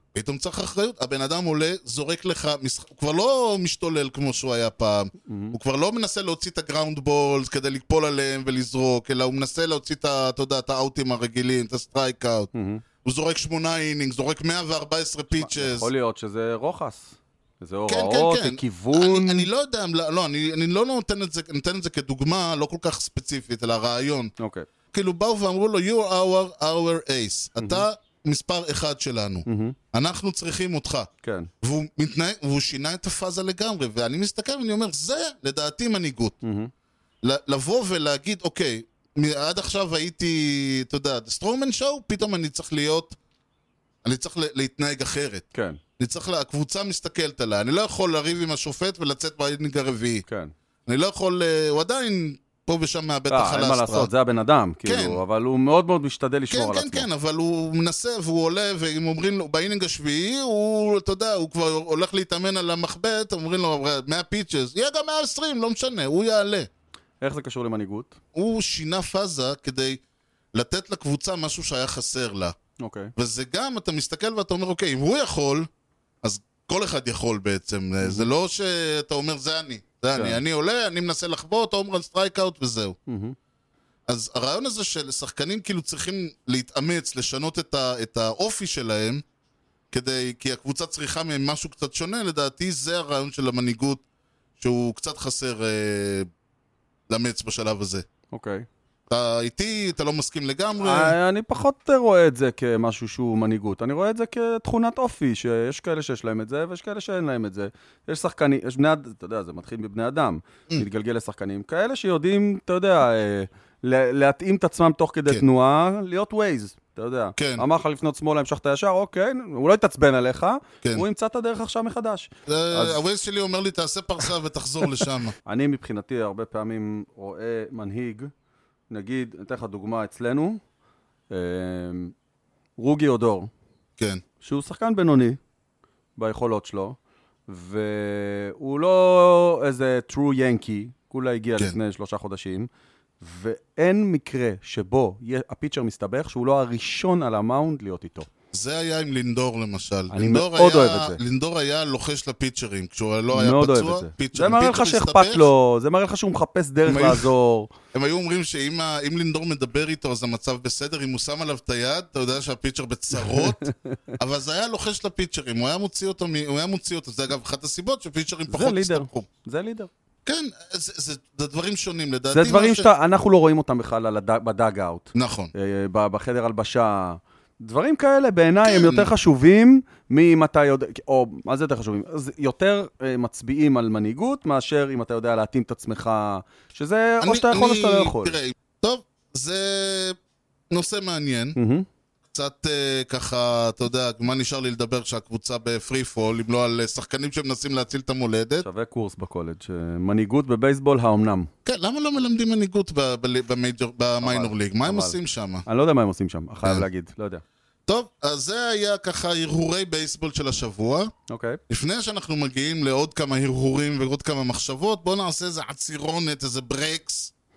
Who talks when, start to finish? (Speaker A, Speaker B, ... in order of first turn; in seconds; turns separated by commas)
Speaker A: 0.1-12.5, Speaker B: 5.3-5.6, Speaker B: 12.5-12.8, Speaker A: 13.0-15.9, Speaker B: 15.4-19.5, Speaker A: 17.9-24.3, Speaker B: 24.4-24.7, Speaker A: 24.9-31.1, Speaker B: 27.6-27.8, Speaker B: 29.4-29.8, Speaker B: 31.2-31.5, Speaker A: 31.6-36.4, Speaker B: 36.4-36.7, Speaker A: 37.2-43.1, Speaker A: 44.0-45.4, Speaker B: 45.5-45.8, Speaker A: 46.0-50.2, Speaker B: 50.3-50.5, Speaker A: 50.9-54.1, Speaker B: 53.3-57.1, Speaker A: 54.8-55.2, Speaker A: 56.5-66.7, Speaker B: 67.2-68.2, Speaker A: 68.3-70.0, Speaker A: 70.5-72.5, Speaker B: 72.8-73.1, Speaker A: 73.2-75.7, Speaker A: 76.2-83.0, Speaker B: 78.0-78.3, Speaker B: 80.1-80.4, Speaker B: 83.1-83.3, Speaker A: 84.1-89.2, Speaker A: 89.9-94.0, Speaker A: 94.6-96.3, Speaker A: 97.1-98.0, Speaker B: 98.3-98.7, Speaker A: 99.1-101.2, Speaker B: 100.8-123.0, Speaker A: 117.4-117.6, Speaker A: 122.5-125.3, Speaker B: 125.5-128.3, Speaker B: 128.9-130.6, Speaker B: 131.3-132.1, Speaker B: 132.8-133.5, Speaker B: 134.4-135.4, Speaker B: 136.2-137.0, Speaker B: 137.5-142.7, Speaker B: 143.2-148.3, Speaker A: 148.5-155.5, Speaker B: 150.1-151.2, Speaker B: 153.3-157.7, Speaker A: 156.8-157.3, Speaker A: 157.9-163.7, Speaker B: 163.2-163.9, Speaker A: 164.2-169.3, Speaker B: 168.5-169.9, Speaker A: 170.2-172.9, Speaker B: 172.3-188.4, Speaker A: 175.1-175.5, Speaker A: 178.6-179.1, Speaker A: 187.2-190.2, Speaker A: 190.7-191.6, Speaker B: 191.6-191.8, Speaker A: 192.3-198.7, Speaker B: 198.6-201.5, Speaker A: 201.6-205.6, Speaker B: 204.2-207.4, Speaker A: 207.9-211.1, Speaker B: 211.3-211.6, Speaker A: 211.7-217.3